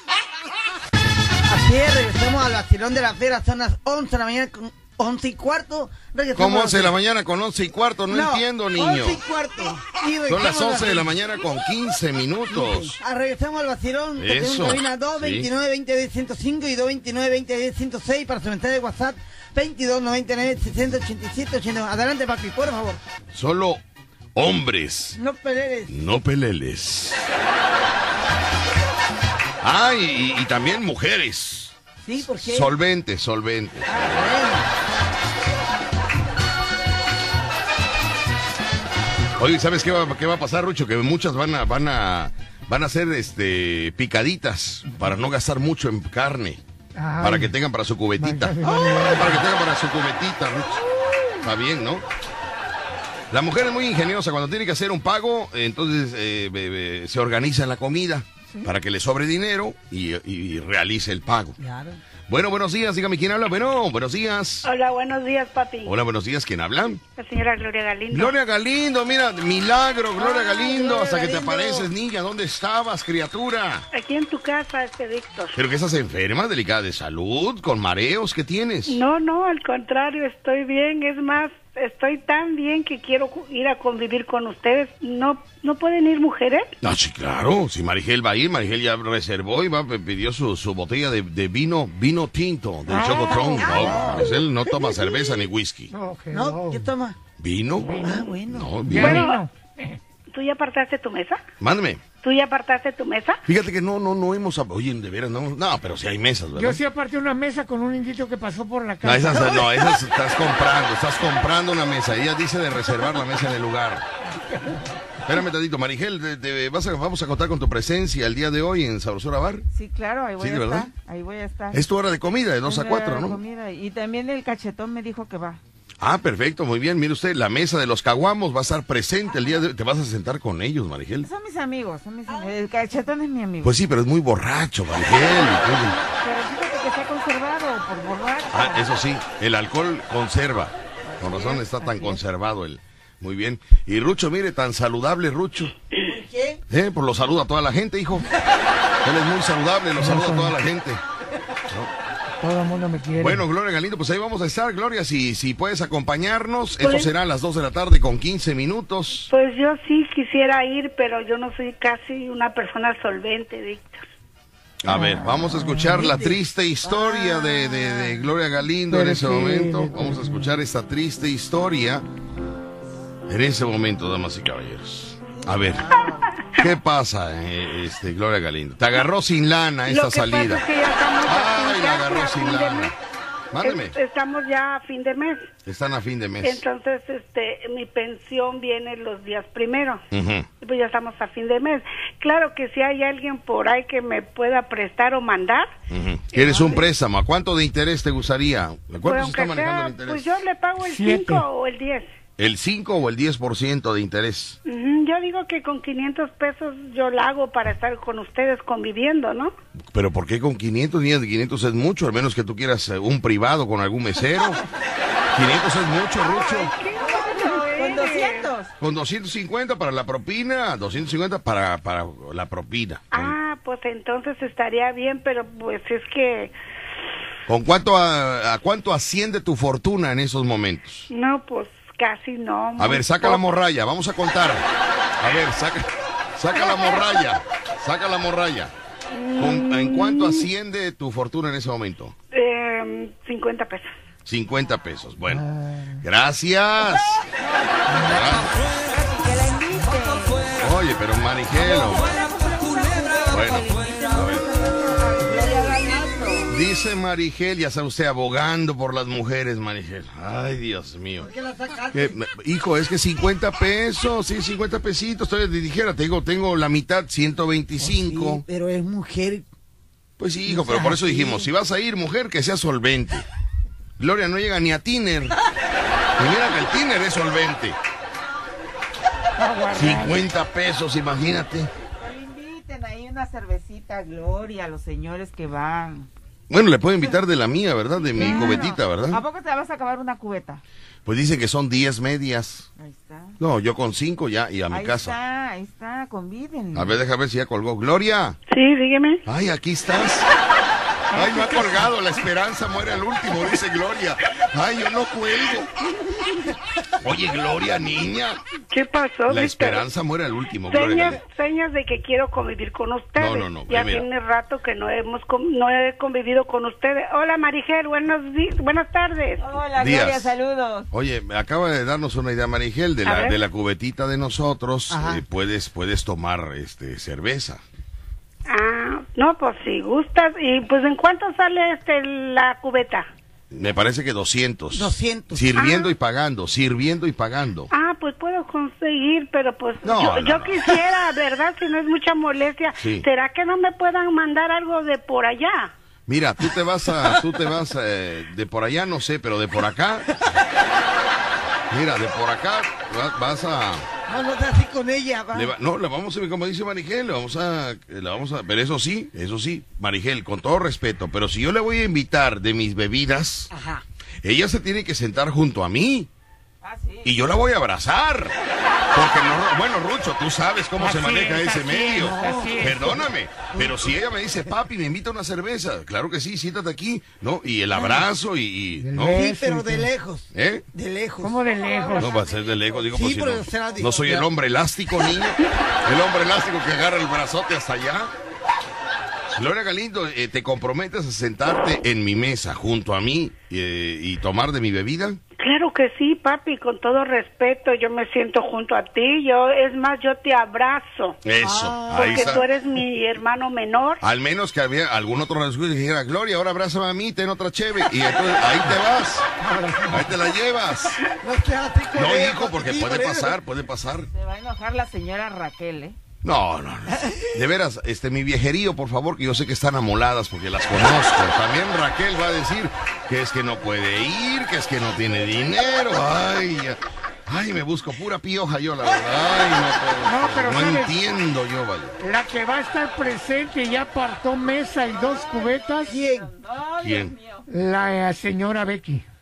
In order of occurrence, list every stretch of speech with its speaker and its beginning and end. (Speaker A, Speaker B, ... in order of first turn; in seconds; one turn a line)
Speaker A: 1.4-6.9
Speaker B: 6.3-9.2
Speaker A: 8.1-11.1
Speaker B: 10.3-13.0
Speaker A: 12.5-23.0
Speaker B: 14.2-15.5
Speaker B: 23.3-23.8
Speaker B: 24.3-25.2
Speaker A: 25.1-25.9
Speaker B: 25.9-27.3
Speaker B: 29.6-34.4
Speaker A: 32.0-32.7
Speaker A: 33.9-34.7
Speaker B: 39.4-46.6
Speaker C: 47.0-47.5
Speaker B: 47.2-52.0
Speaker C: 48.2-49.4
Speaker A: 48.6-49.2
Speaker B: 53.3-61.6
Speaker A: 61.6-62.0
Speaker B: 62.3-64.7
Speaker D: 64.6-65.9
Speaker B: 65.8-67.0
Speaker D: 67.2-68.3
Speaker B: 68.1-73.9
Speaker A: 70.2-71.9
Speaker D: 73.9-75.6
Speaker B: 75.5-79.0
Speaker D: 78.9-86.7
Speaker B: 86.8-95.9
Speaker C: 92.9-94.2
Speaker A: 93.4-95.1
Speaker C: 95.9-96.9
Speaker A: 96.3-97.2
Speaker B: 97.4-98.0
Speaker C: 97.8-98.3
Speaker A: 98.0-98.9
Speaker B: 98.5-99.3
Speaker C: 98.8-100.0
Speaker D: 98.9-99.4
Speaker D: 100.3-101.4
Speaker B: 101.6-102.0
Speaker D: 102.2-103.4
Speaker B: 103.5-106.8
Speaker C: 106.5-109.7
Speaker B: 109.0-114.0
Speaker C: 114.3-114.9
Speaker B: 115.2-119.7
Speaker E: 119.7-121.8
Speaker B: 120.4-120.9
Speaker B: 121.7-123.4
Speaker E: 122.6-125.6
Speaker B: 126.0-131.3
Speaker E: 131.2-133.8
Speaker B: 133.6-135.9
Speaker E: 135.1-138.9
Speaker B: 138.5-145.7
Speaker E: 141.2-142.1
Speaker A: 146.0-146.6
Speaker B: 146.7-148.3
Speaker B: 149.0-151.0
Speaker C: 150.0-150.5
Speaker C: 152.4-153.4
Speaker B: 153.2-159.3
Speaker D: 156.8-157.1
Speaker D: 159.3-164.0
Speaker B: 164.8-172.0
Speaker C: 164.9-166.0
Speaker A: 165.9-166.4
Speaker C: 168.9-170.5
Speaker B: 173.3-176.0
Speaker A: 175.4-176.2
Speaker B: 176.6-180.6
Speaker D: 179.9-182.9
Speaker B: 181.2-182.9
Speaker B: 183.5-183.9
Speaker D: 183.6-185.5
Speaker B: 185.7-186.6
Speaker D: 186.4-190.0
Speaker B: 190.1-190.5
Speaker D: 190.6-195.7
Speaker B: 195.9-200.3
Speaker C: 196.3-196.8
Speaker D: 199.0-202.1
Speaker C: 200.8-201.4
Speaker B: 202.4-204.6
Speaker D: 204.7-209.5
Speaker B: 209.9-214.6
Speaker B: 215.3-216.7
Speaker D: 216.2-218.5
Speaker E: 217.0-218.7
Speaker B: 218.8-223.3
Speaker D: 223.1-226.5
Speaker B: 227.5-231.1
Speaker D: 231.1-233.4
Speaker B: 232.8-234.7
Speaker B: 235.2-238.7
Speaker D: 236.6-237.0
Speaker D: 239.1-240.5
Speaker B: 239.4-242.1
Speaker D: 242.3-243.9
Speaker B: 244.2-245.4
Speaker C: 245.3-246.0
Speaker B: 246.0-247.2
Speaker C: 247.9-248.2
Speaker E: 247.9-250.6
Speaker B: 248.0-248.5
Speaker B: 250.6-252.1
Speaker E: 251.8-256.5
Speaker A: 252.1-254.2
Speaker B: 253.3-254.4
Speaker A: 255.2-256.4
Speaker B: 256.5-261.3
Speaker A: 261.2-262.2
Speaker B: 261.9-268.4
Speaker A: 267.8-269.4
Speaker B: 270.2-273.2
Speaker A: 270.4-271.5
Speaker B: 274.0-275.4
Speaker B: 276.2-277.8
Speaker C: 279.4-280.2
Speaker B: 279.8-281.7
Speaker E: 282.0-286.1
Speaker B: 286.5-289.2
Speaker E: 288.0-290.6
Speaker B: 291.1-292.7
Speaker E: 292.8-293.4
Speaker B: 293.4-295.1
Speaker E: 294.7-297.0
Speaker B: 296.7-298.4
Speaker D: 298.5-299.2
Speaker B: 299.2-300.3
Speaker C: 301.1-301.9
Speaker B: 301.1-305.7
Speaker B: 307.0-308.4
Speaker D: 308.7-309.8
Speaker B: 309.3-311.2
Speaker D: 310.6-319.4
Speaker B: 313.2-314.1
Speaker E: 319.4-320.9
Speaker B: 319.8-320.3
Speaker B: 320.9-327.6
Speaker D: 323.0-323.4
Speaker A: 324.9-325.2
Speaker D: 328.5-333.1
Speaker B: 333.5-337.7
Speaker A: 334.7-335.5
Speaker D: 335.6-335.9
Speaker D: 337.7-345.7
Speaker B: 339.8-340.7
Speaker B: 342.8-343.0
Speaker B: 346.1-350.1
Speaker B: 351.7-353.9
Speaker A: 354.1-355.5
Speaker B: 355.3-363.5
Speaker A: 363.5-363.8
Speaker B: 364.2-366.1
Speaker E: 366.6-367.2
Speaker B: 367.0-368.3
Speaker B: 368.9-379.2
Speaker C: 370.8-373.1
Speaker A: 371.9-372.9
Speaker A: 373.5-373.8
Speaker A: 377.7-378.0
Speaker C: 378.8-379.9
Speaker A: 379.0-381.4
Speaker B: 380.3-380.6
Speaker C: 381.2-382.1
Speaker B: 382.0-388.1
Speaker A: 382.9-384.3
Speaker B: 389.3-395.2
Speaker D: 395.4-401.2
Speaker B: 401.2-402.4
Speaker A: 401.4-402.4
Speaker D: 401.9-404.0
Speaker B: 404.0-409.2
Speaker C: 409.4-410.1
Speaker B: 409.9-411.0
Speaker A: 411.2-413.3
Speaker B: 411.9-414.1
Speaker E: 414.1-416.0
Speaker B: 416.2-432.0
Speaker C: 430.0-430.9
Speaker C: 432.0-435.9
Speaker A: 435.9-436.3
Speaker E: 435.9-437.5
Speaker B: 436.8-437.1
Speaker C: 437.5-439.0